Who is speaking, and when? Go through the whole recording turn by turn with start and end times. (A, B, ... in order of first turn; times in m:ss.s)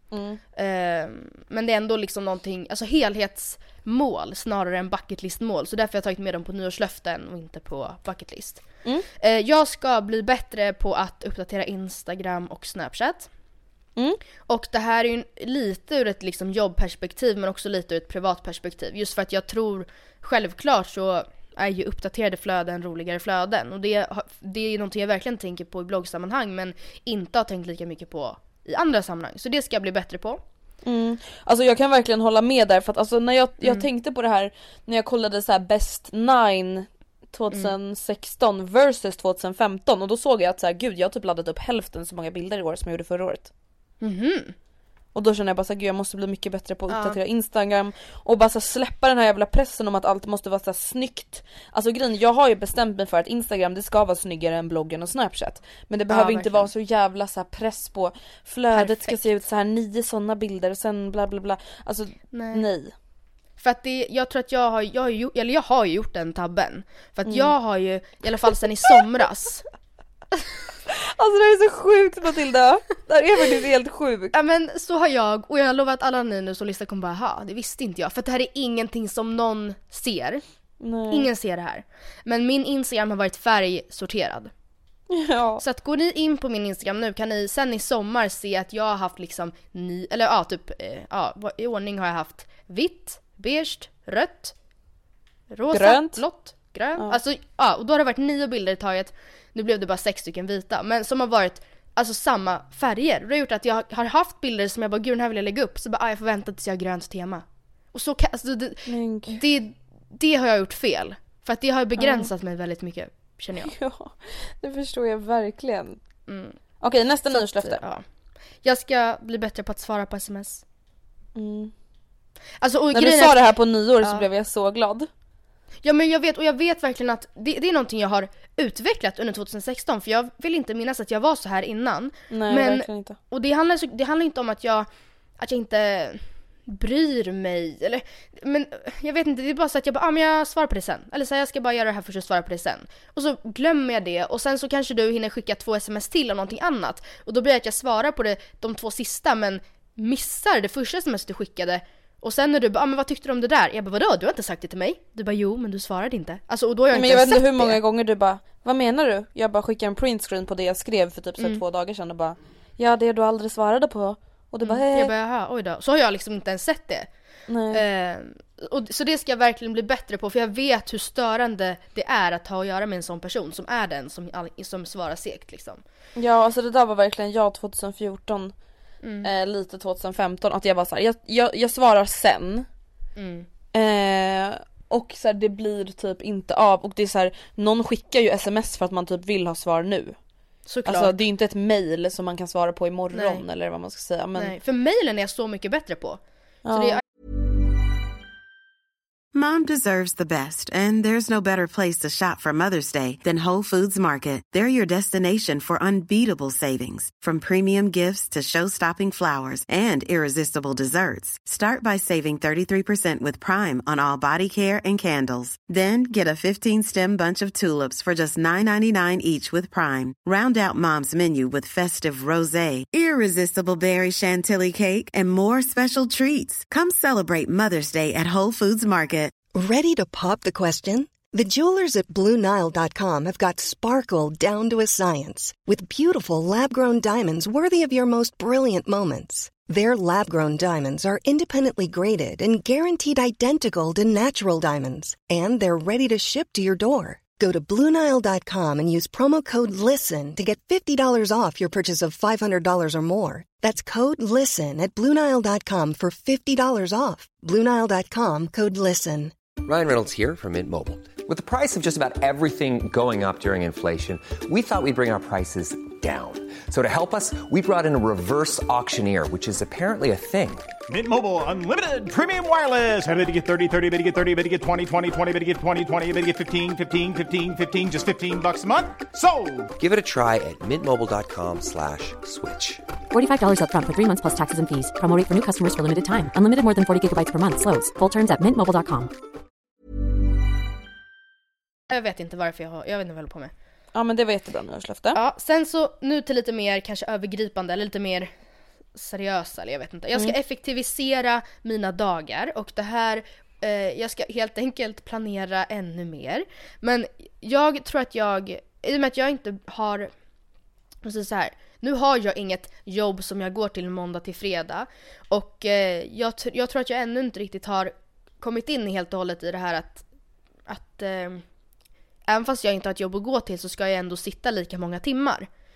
0:00.1-0:00.4 A
0:00.5-0:08.6 B
0:09.2-0:13.3 B
0:14.5-0:30.4 B
0:30.8-0:43.5 A
0:44.0-0:44.5 B
0:45.1-1:02.9 A
0:46.9-0:47.2 B
0:56.1-0:56.7 B
0:58.7-0:59.2 B
1:02.3-1:02.6 B
1:03.6-1:09.6 B
1:07.3-1:07.5 A
1:10.9-1:14.3 A
1:14.3-1:20.4 B
1:20.8-1:21.3 A
1:21.1-1:24.5 B
1:25.1-1:25.6 A
1:25.6-1:34.5 B
1:35.5-1:53.7 B
1:35.7-1:36.2 A
1:48.9-1:49.4 A
1:52.0-1:52.3 A
1:53.6-1:56.0 A
1:56.3-1:56.6 B
1:56.8-1:57.8 A
1:57.3-1:58.0 B
1:58.6-2:00.6 B
2:01.4-2:01.7 A
2:02.6-2:04.2 B
2:02.9-2:05.1 A
2:05.8-2:14.9 B
2:12.3-2:13.2 A
2:15.4-2:37.8 B
2:36.9-2:45.1 A
2:44.6-2:47.1 B
2:47.5-2:47.8 A
2:47.7-2:55.8 B
2:56.2-2:58.5 A
2:59.0-2:59.3 B
2:59.2-3:02.6 A
3:03.2-3:03.5 B
3:03.7-3:10.2 A
3:10.7-3:11.1 B
3:10.8-3:14.5 A
3:13.1-3:13.4 B
3:14.4-3:16.2 B
3:16.6-3:17.0 A
3:16.7-3:17.0 B
3:19.3-3:49.3 C
3:49.5-4:19.3 D
4:19.6-4:30.7 E
4:30.9-4:39.7 F
4:39.8-4:42.8 E
4:43.1-4:49.1 G
4:51.9-4:53.5 B
4:53.9-4:55.2 A
4:55.1-4:58.3 B
4:58.9-5:10.1 B
5:11.0-5:20.0 B
5:20.7-5:21.4 B
5:22.3-5:25.5 B